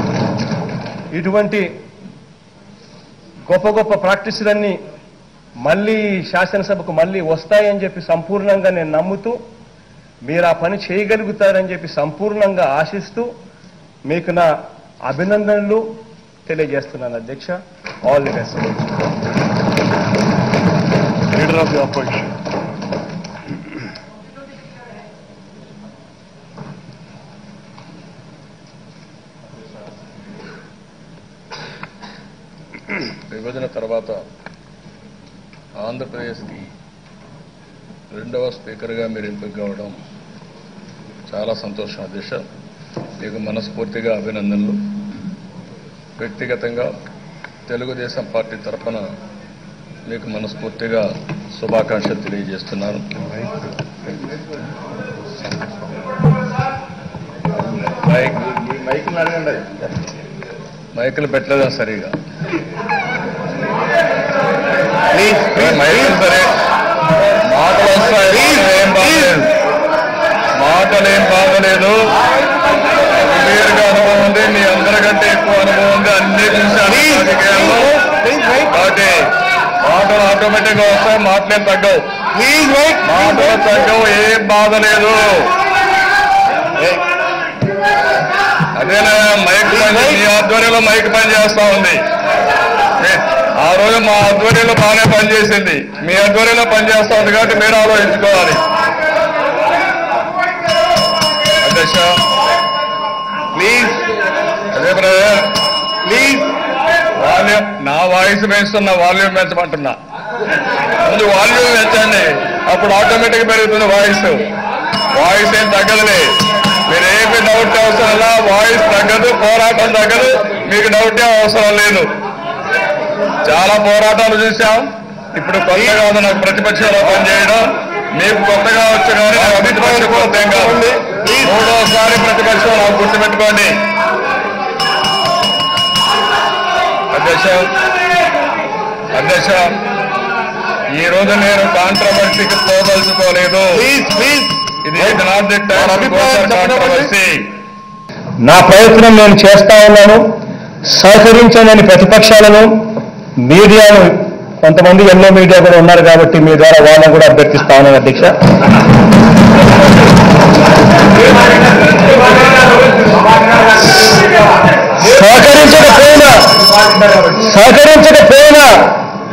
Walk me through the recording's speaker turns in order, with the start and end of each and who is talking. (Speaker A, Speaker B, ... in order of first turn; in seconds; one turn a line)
Speaker A: 1.1-1.7
Speaker A: 3.5-4.8
Speaker A: 5.7-9.4
Speaker A: 10.3-13.3
Speaker A: 14.1-14.5
Speaker A: 15.1-18.9
Speaker B: 21.3-22.3
Speaker C: 33.3-34.2
Speaker C: 35.8-36.7
Speaker C: 38.1-40.0
Speaker C: 41.3-42.5
Speaker C: 43.2-44.8
Speaker C: 46.2-46.9
Speaker C: 47.7-49.1
Speaker C: 50.1-53.1
Speaker C: 58.0-58.4
Speaker B: 58.4-59.8
Speaker C: 61.0-62.1
Speaker B: 65.1-66.2
Speaker C: 65.5-66.5
Speaker C: 67.5-69.5
Speaker B: 68.4-69.4
Speaker C: 70.6-72.0
Speaker C: 73.2-78.0
Speaker B: 76.9-78.8
Speaker C: 78.7-79.2
Speaker C: 79.8-82.0
Speaker B: 82.3-83.7
Speaker C: 83.0-85.5
Speaker B: 86.8-87.0
Speaker C: 88.8-92.0
Speaker B: 89.7-90.2
Speaker C: 93.0-98.6
Speaker C: 101.6-102.2
Speaker B: 103.5-104.0
Speaker C: 104.7-105.6
Speaker B: 106.0-106.5
Speaker C: 107.2-110.0
Speaker C: 111.0-114.4
Speaker C: 115.1-116.3
Speaker C: 116.9-122.1
Speaker C: 123.5-130.8
Speaker B: 125.7-126.0
Speaker B: 129.3-131.6
Speaker C: 131.4-133.8
Speaker C: 137.1-137.7
Speaker C: 139.1-139.7
Speaker C: 140.9-143.9
Speaker B: 143.7-147.1
Speaker C: 144.8-147.4
Speaker A: 148.4-150.2
Speaker A: 150.9-152.9
Speaker A: 153.4-158.3
Speaker A: 165.0-166.6
Speaker A: 167.3-169.0